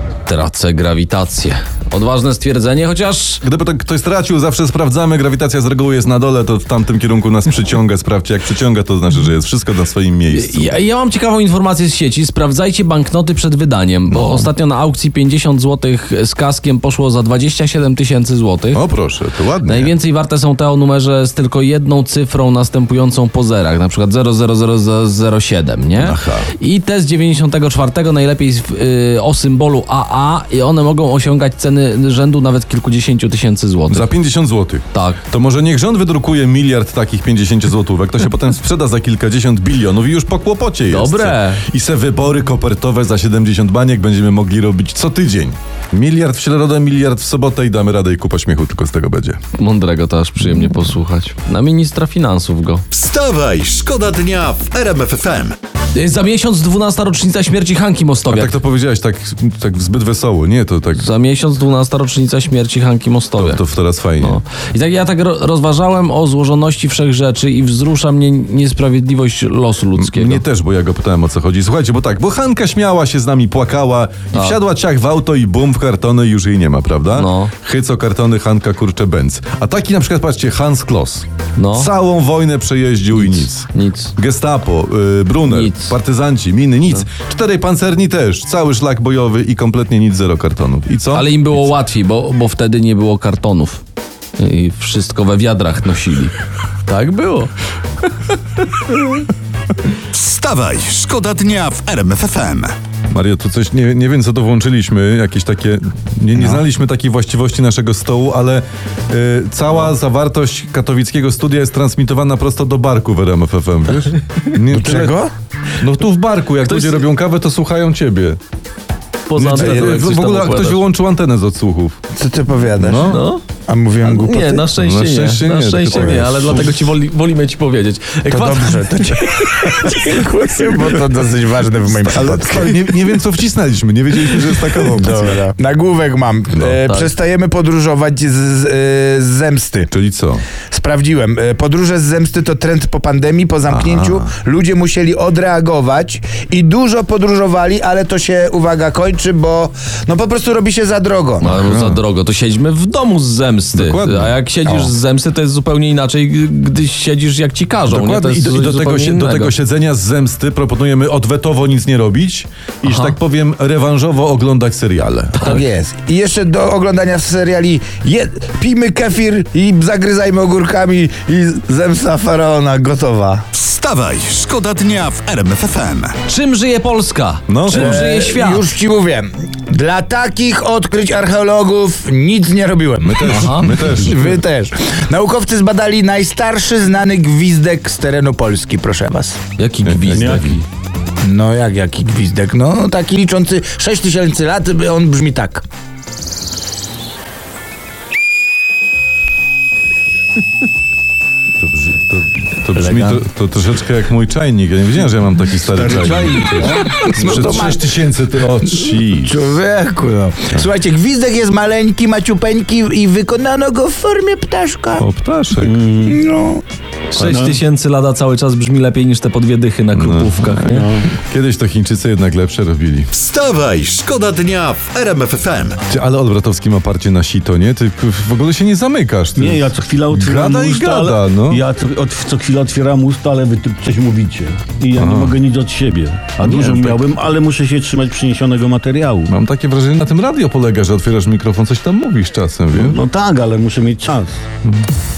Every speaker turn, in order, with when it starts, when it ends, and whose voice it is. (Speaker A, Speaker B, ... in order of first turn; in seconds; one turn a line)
Speaker A: 0.3-3.4
Speaker B: 3.4-10.7
Speaker A: 10.3-18.9
Speaker B: 14.1-14.5
Speaker B: 18.7-19.9
Speaker A: 19.6-34.1
Speaker B: 26.0-26.5
Speaker B: 33.9-49.4
Speaker A: 34.9-35.2
Speaker A: 40.9-41.6
Speaker A: 49.5-52.8
Speaker C: 52.9-55.6
Speaker A: 55.9-58.5
Speaker B: 58.3-61.1
Speaker A: 61.0-63.6
Speaker B: 63.4-64.4
Speaker A: 64.2-70.4
Speaker B: 70.0-91.7
Speaker A: 77.1-77.5
Speaker A: 81.6-81.9
Speaker A: 83.1-84.1
Speaker A: 85.5-86.0
Speaker A: 91.1-93.8
Speaker A: 94.4-96.3
Speaker A: 96.9-97.5
Speaker C: 100.1-102.7
Speaker B: 103.1-115.2
Speaker D: 106.3-106.6
Speaker D: 114.7-115.3
Speaker B: 115.8-118.4
Speaker A: 116.7-117.1
Speaker A: 119.3-120.8
Speaker B: 119.3-122.0
Speaker D: 119.5-120.0
Speaker D: 122.2-123.2
Speaker B: 122.8-123.2
Speaker A: 123.0-123.4
Speaker D: 123.7-124.7
Speaker A: 124.0-131.0
Speaker B: 124.8-126.9
Speaker D: 125.9-126.5
Speaker D: 128.3-132.9
Speaker B: 132.1-135.4
Speaker D: 134.8-139.9
Speaker A: 136.8-137.1
Speaker B: 139.9-140.5
Speaker D: 140.7-151.5
Speaker B: 143.7-144.2
Speaker A: 151.4-159.5
Speaker B: 151.4-152.0
Speaker B: 153.8-154.3
Speaker B: 157.9-165.6
Speaker A: 162.8-163.1
Speaker D: 165.4-173.4
Speaker C: 173.5-176.2
Speaker A: 176.3-178.7
Speaker B: 177.5-178.0
Speaker D: 177.7-189.4
Speaker B: 183.0-184.4
Speaker A: 183.3-183.7
Speaker A: 189.6-190.7
Speaker B: 189.8-190.4
Speaker E: 190.1-190.5
Speaker D: 191.2-195.6
Speaker B: 201.6-209.6
Speaker D: 202.8-203.2
Speaker A: 205.9-206.8
Speaker D: 206.6-207.8
Speaker D: 208.8-215.1
Speaker B: 215.0-215.8
Speaker E: 215.6-216.2
Speaker D: 216.1-216.6
Speaker A: 217.1-220.9
Speaker E: 217.2-217.6
Speaker B: 219.9-223.1
Speaker E: 220.7-221.1
Speaker C: 223.1-225.8
Speaker B: 225.9-231.6
Speaker E: 229.4-239.3
Speaker B: 234.9-235.4
Speaker B: 236.4-237.0
Speaker B: 239.3-243.0
Speaker E: 242.8-244.4